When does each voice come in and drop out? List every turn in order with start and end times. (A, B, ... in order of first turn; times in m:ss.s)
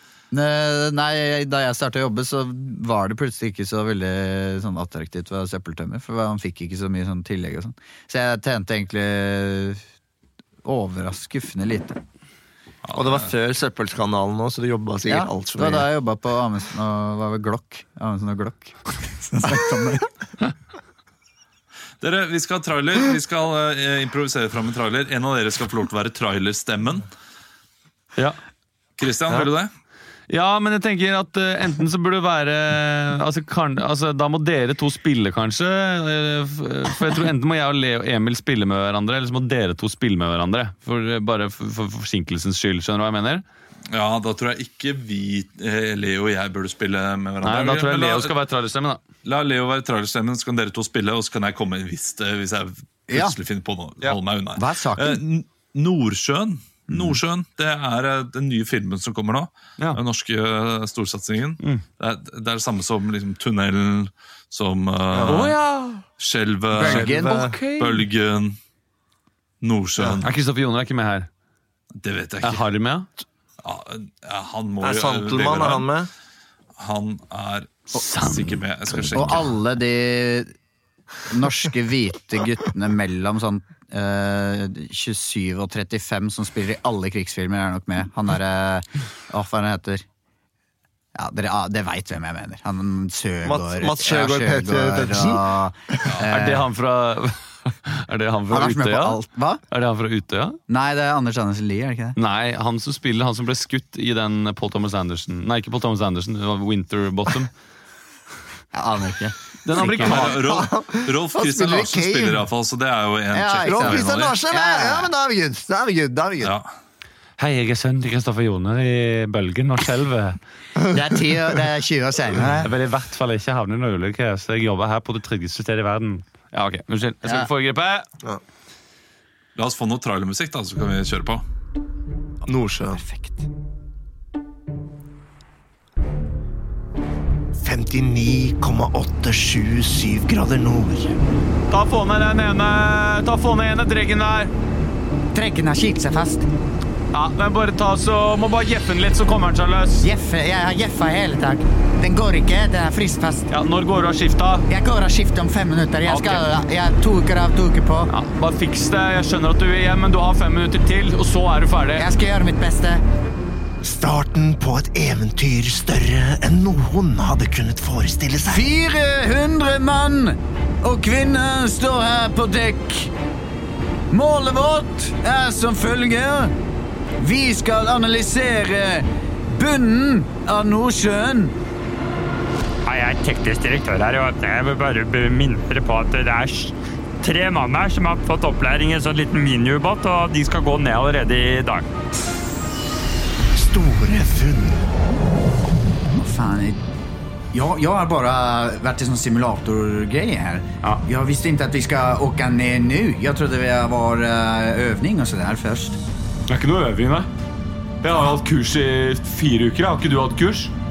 0:00.3-0:09.8 A
0:10.6-0:12.0 A
0:12.8-0:13.3 B
0:12.9-0:15.9 C
0:15.1-0:20.1 A
0:22.0-0:27.1 B
0:29.0-0:29.7 B
0:30.3-0:43.4 D
0:43.9-0:48.3 B
0:47.4-0:49.0 D
0:49.2-1:05.6 B
0:53.1-0:53.4 A
0:54.6-0:55.2 A
0:56.9-0:57.2 A
1:05.1-1:05.5 C
1:05.3-1:06.0 D
1:06.2-1:08.6 B
1:06.7-1:07.5 A
1:06.8-1:08.0 D
1:09.6-1:10.3 B
1:10.0-1:10.2 C
1:10.2-1:11.3 D
1:12.0-1:12.6 B
1:12.4-1:13.1 D
1:13.6-1:15.9 B
1:14.8-1:16.1 C
1:16.8-1:19.5 B
1:17.9-1:19.1 D
1:19.1-1:20.5 A
1:21.3-1:30.0 A
1:31.1-1:36.7 A
1:33.4-1:35.4 C
1:36.2-1:40.6 D
1:38.5-1:39.6 A
1:40.7-1:42.2 A
1:42.2-1:47.5 D
1:48.7-1:50.1 A
1:49.6-1:50.4 D
1:49.8-1:54.4 B
1:50.0-1:52.4 C
1:53.3-1:55.1 A
1:53.6-1:56.5 C
1:56.4-1:56.7 B
1:57.4-2:00.4 D
2:00.9-2:02.7 A
2:02.6-2:08.0 D
2:07.2-2:07.5 A
2:09.6-2:11.4 B
2:12.5-2:13.0 C
2:12.9-2:13.4 A
2:17.6-2:21.2 C
2:21.7-2:24.5 D
2:25.3-2:26.5 A
2:27.1-2:30.0 D
2:30.0-2:33.5 A
2:33.5-2:34.7 D
2:34.7-2:38.1 A
2:36.1-2:36.4 D
2:38.1-2:42.1 D
2:42.0-2:43.0 A
2:43.8-2:48.6 C
2:48.5-2:53.1 A
2:54.1-2:56.5 A
2:57.2-3:01.5 A
3:02.8-3:11.9 E
3:13.5-3:14.8 C
3:16.1-3:16.8 A
3:17.5-3:26.0 A
3:26.5-3:27.3 D
3:28.0-3:30.7 D